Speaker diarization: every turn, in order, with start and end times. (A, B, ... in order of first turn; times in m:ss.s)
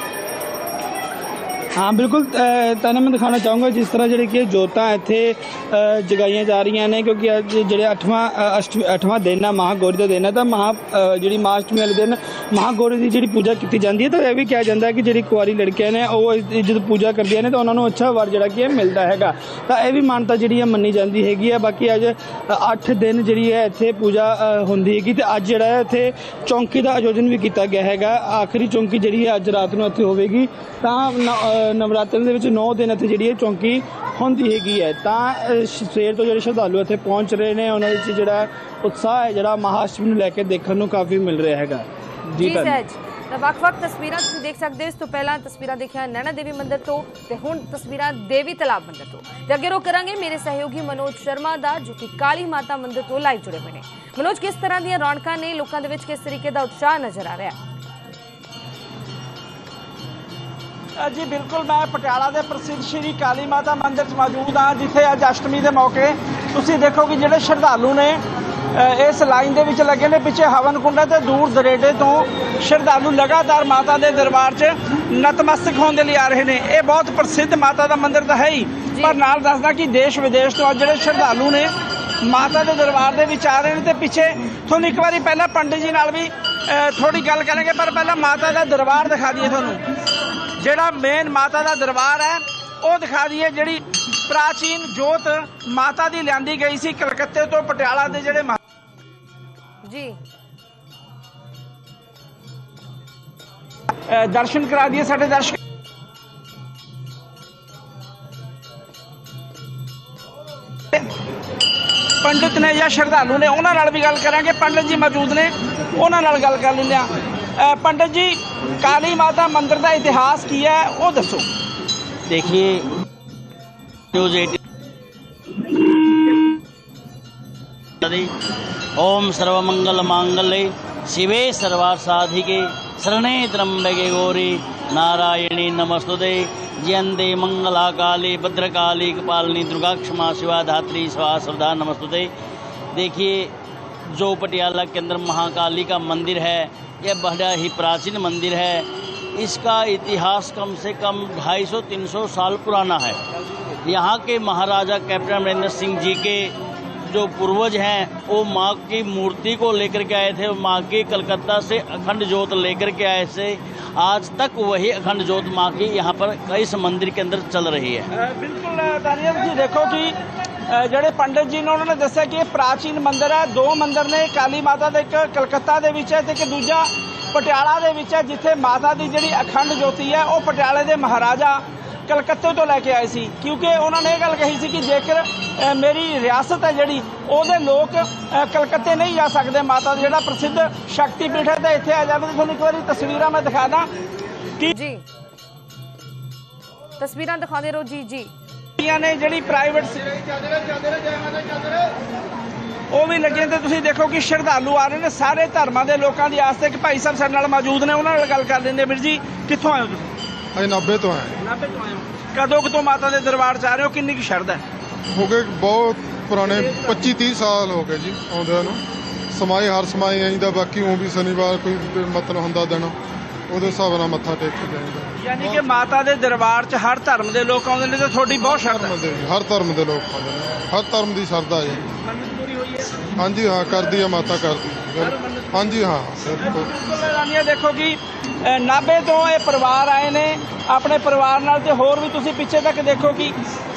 0:01.8-0:42.8 A
0:42.4-0:57.6 B
1:01.0-1:08.2 C
1:08.7-1:21.7 C
1:18.9-1:19.2 B
1:22.2-1:29.8 C
1:30.6-1:38.6 C
1:39.8-1:40.2 B
1:44.1-1:45.6 C
1:52.2-2:01.5 C
2:02.3-2:02.9 D
2:04.1-2:04.6 D
2:08.0-2:08.3 D
2:09.0-2:22.3 D
2:22.9-2:23.5 D
2:24.1-2:33.2 D
2:33.8-2:36.5 D
2:37.1-2:48.1 D
2:48.2-2:50.2 C
2:50.7-3:13.9 C
3:14.7-3:15.0 B
3:17.0-3:18.3 B
3:18.8-3:20.1 C
3:22.9-3:30.1 C
3:30.6-3:31.4 E
3:31.4-3:34.6 C
3:35.1-3:38.8 E
3:36.5-3:37.0 C
3:39.3-3:43.0 E
3:43.5-3:45.7 E
3:45.2-3:49.0 C
3:48.6-3:51.8 E
3:52.1-3:52.9 C
3:53.1-3:56.7 E
3:55.0-3:55.6 C
3:56.6-4:03.4 C